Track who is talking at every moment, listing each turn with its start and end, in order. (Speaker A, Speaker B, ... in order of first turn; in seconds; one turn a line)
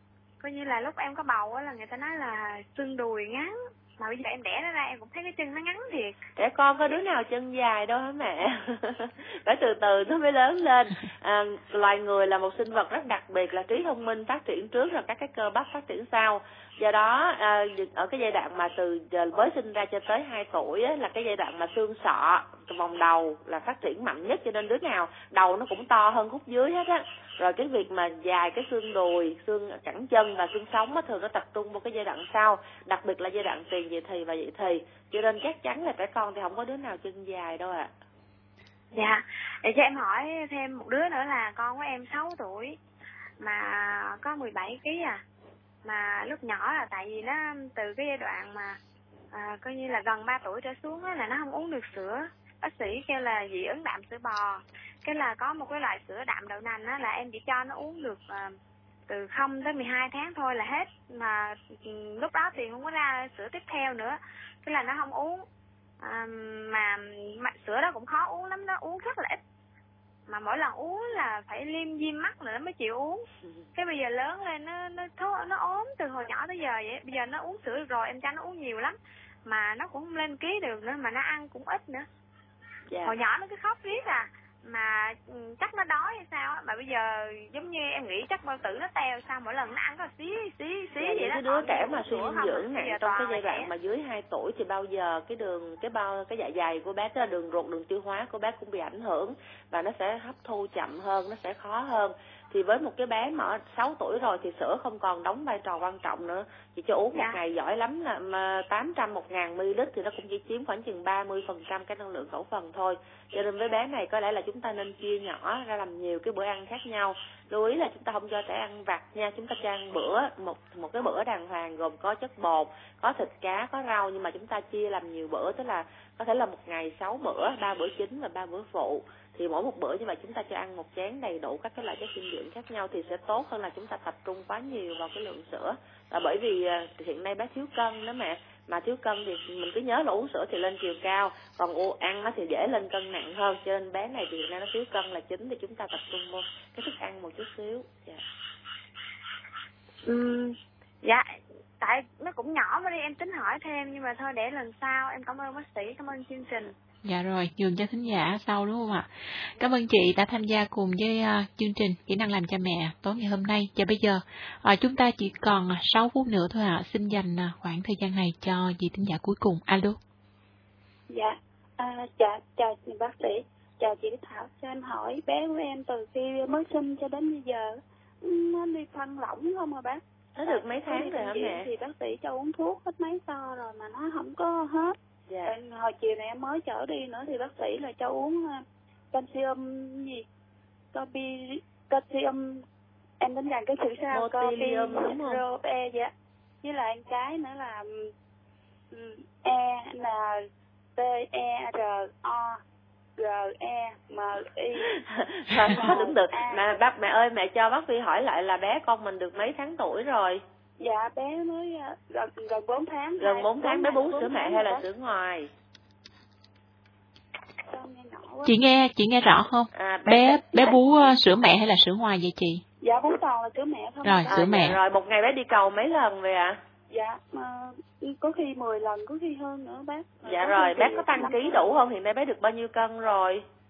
Speaker A: 0.4-6.2
Speaker B: 6.4-37.9
Speaker A: 38.9-42.8
Speaker A: 43.4-45.2
Speaker A: 45.8-48.8
Speaker A: 49.3-58.5
Speaker A: 59.1-65.5
Speaker A: 66.0-69.4
Speaker A: 70.3-82.1
Speaker B: 82.9-83.2
Speaker A: 83.0-93.7
Speaker B: 91.0-148.2
Speaker A: 107.1-107.4
Speaker A: 150.0-156.7
Speaker C: 157.0-170.0
Speaker D: 171.1-184.9
Speaker B: 180.4-181.7
Speaker B: 185.3-185.6
Speaker D: 185.4-190.2
Speaker D: 190.9-192.6
Speaker D: 193.2-196.1
Speaker B: 194.1-195.4
Speaker D: 196.6-198.1
Speaker D: 198.9-200.4
Speaker D: 200.9-202.6
Speaker D: 203.2-204.9
Speaker B: 205.1-210.4
Speaker D: 205.6-206.7
Speaker D: 210.8-214.9
Speaker B: 213.2-215.5
Speaker D: 217.7-218.6
Speaker C: 218.4-222.6
Speaker B: 219.7-220.8
Speaker D: 222.8-224.8
Speaker C: 224.0-224.8
Speaker B: 224.3-226.6
Speaker D: 226.9-231.7
Speaker B: 230.2-233.4